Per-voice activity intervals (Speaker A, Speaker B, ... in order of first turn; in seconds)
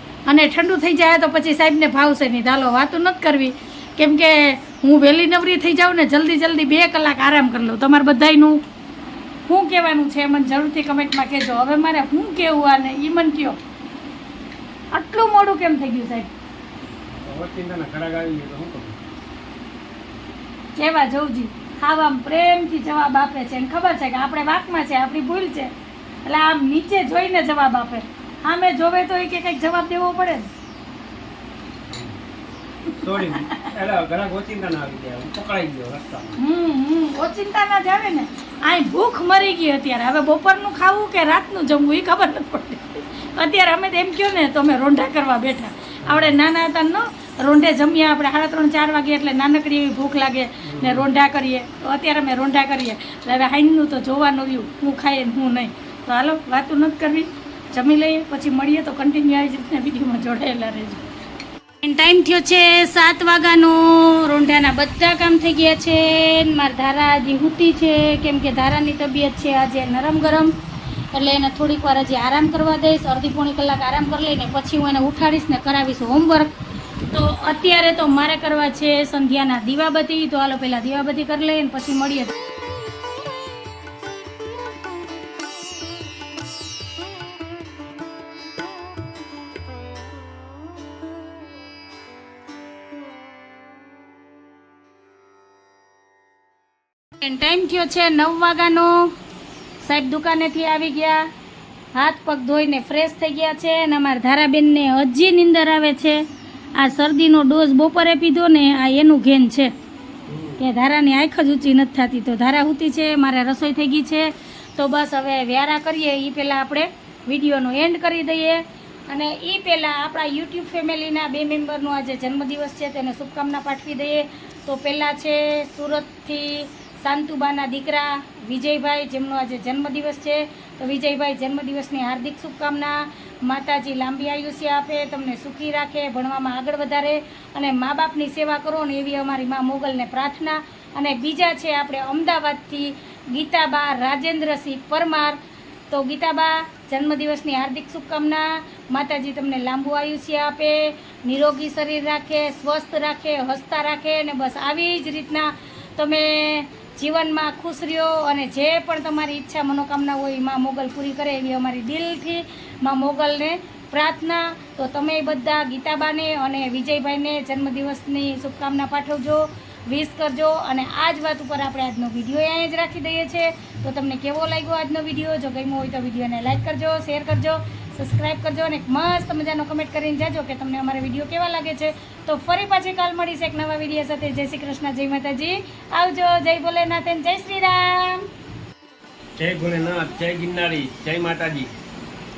Speaker A: 0.2-8.6, 9.5-13.6, 14.9-16.3, 20.8-25.7, 26.2-30.5, 32.9-33.7, 36.4-61.0, 61.8-70.5, 71.1-76.5, 77.1-82.3, 97.2-99.1, 99.8-101.2, 101.9-106.2, 106.8-109.7, 110.6-145.4, 145.9-188.3
Speaker B: 17.2-18.9, 31.9-32.2, 33.0-36.4, 46.0-46.4, 50.6-51.1, 110.3-110.6, 189.4-191.7